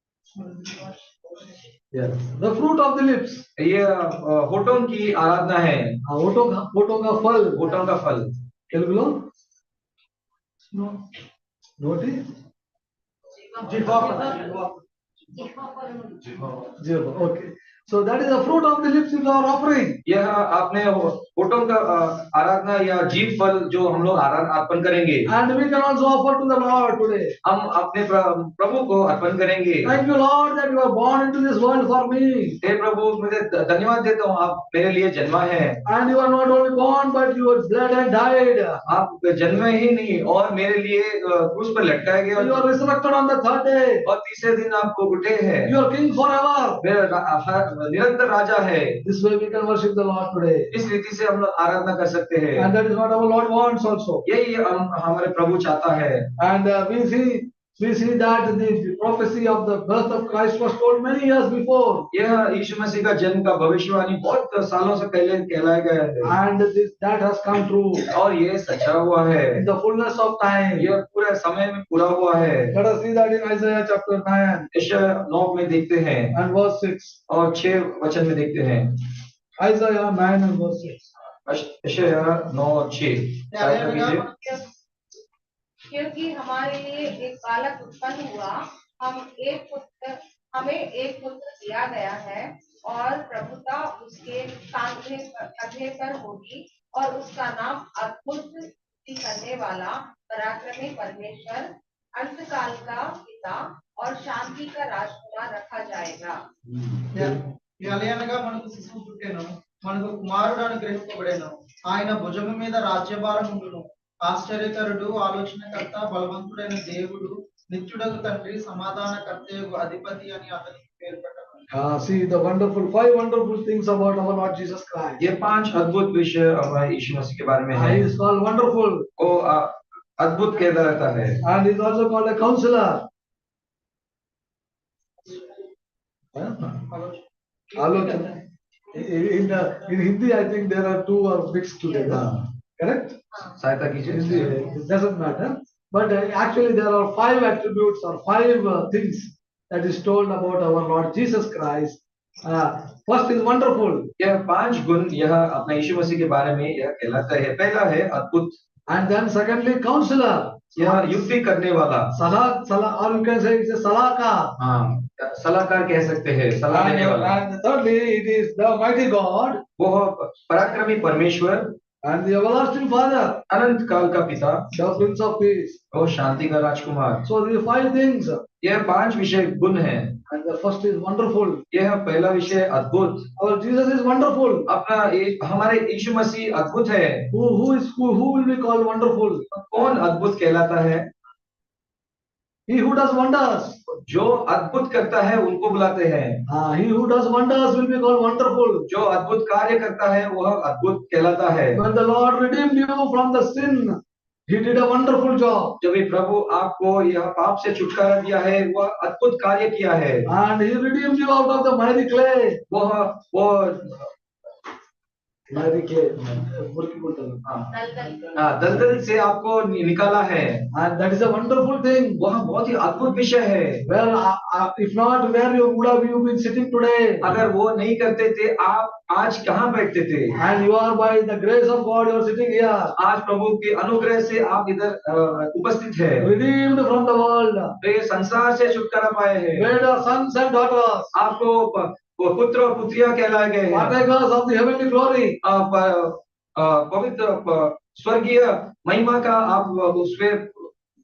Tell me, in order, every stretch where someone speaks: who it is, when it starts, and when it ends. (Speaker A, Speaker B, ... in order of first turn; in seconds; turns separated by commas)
Speaker A: 0.3-1.0, Speaker B: 1.9-3.4, Speaker C: 3.6-6.0, Speaker B: 6.1-7.7, Speaker C: 7.6-8.3, Speaker B: 8.7-9.2, Speaker B: 11.8-12.2, Speaker C: 13.8-14.2, Speaker B: 14.0-14.4, Speaker B: 16.8-20.0, Speaker C: 20.1-25.3, Speaker B: 25.3-27.4, Speaker C: 27.4-30.0, Speaker B: 29.8-32.6, Speaker C: 32.6-35.8, Speaker B: 35.9-38.8, Speaker C: 38.9-42.7, Speaker B: 42.4-44.0, Speaker C: 44.0-45.8, Speaker B: 45.6-46.8, Speaker C: 46.8-49.0, Speaker B: 49.0-50.7, Speaker C: 50.7-52.7, Speaker B: 52.6-54.2, Speaker C: 54.2-56.3, Speaker B: 56.4-62.1, Speaker C: 62.1-66.3, Speaker B: 66.2-68.1, Speaker C: 68.1-69.6, Speaker B: 69.6-70.9, Speaker C: 70.8-72.8, Speaker B: 72.7-74.7, Speaker C: 74.7-76.4, Speaker B: 76.3-77.2, Speaker C: 77.3-79.0, Speaker B: 79.6-81.0, Speaker C: 81.5-84.3, Speaker A: 83.5-84.3, Speaker D: 85.9-106.4, Speaker A: 107.1-121.7, Speaker B: 121.7-125.2, Speaker C: 125.2-128.1, Speaker B: 127.7-129.1, Speaker C: 129.2-131.4, Speaker B: 131.4-133.1, Speaker B: 136.3-136.8, Speaker A: 136.9-137.2, Speaker B: 137.8-138.4, Speaker B: 138.9-143.2, Speaker C: 143.6-144.6, Speaker B: 144.1-154.1, Speaker C: 154.2-158.6, Speaker B: 158.9-161.2, Speaker C: 160.8-162.1, Speaker B: 162.1-164.5, Speaker C: 164.6-167.4, Speaker B: 166.7-169.6, Speaker C: 169.8-171.7, Speaker B: 172.0-173.4, Speaker C: 173.5-174.7, Speaker B: 174.7-175.8, Speaker C: 175.9-177.3, Speaker B: 177.3-178.4, Speaker C: 178.6-180.2, Speaker B: 180.3-181.6, Speaker C: 181.7-183.3, Speaker B: 183.4-184.7, Speaker C: 184.7-187.3, Speaker B: 187.3-189.4, Speaker C: 189.5-191.1, Speaker B: 192.7-193.8, Speaker C: 194.0-196.4, Speaker B: 196.5-198.9, Speaker C: 198.9-201.8, Speaker B: 201.8-205.8, Speaker C: 205.8-210.3, Speaker B: 210.3-212.6, Speaker C: 212.7-214.1, Speaker B: 215.5-217.4, Speaker C: 217.4-217.7, Speaker D: 217.7-218.5, Speaker C: 218.4-220.7, Speaker B: 220.7-222.2, Speaker C: 222.2-223.8, Speaker B: 223.9-227.3, Speaker C: 227.2-230.3, Speaker B: 230.4-232.9, Speaker C: 233.0-236.3, Speaker B: 236.2-237.7, Speaker C: 237.8-239.8, Speaker B: 239.6-241.1, Speaker C: 241.1-244.0, Speaker B: 243.7-245.4, Speaker C: 245.4-250.7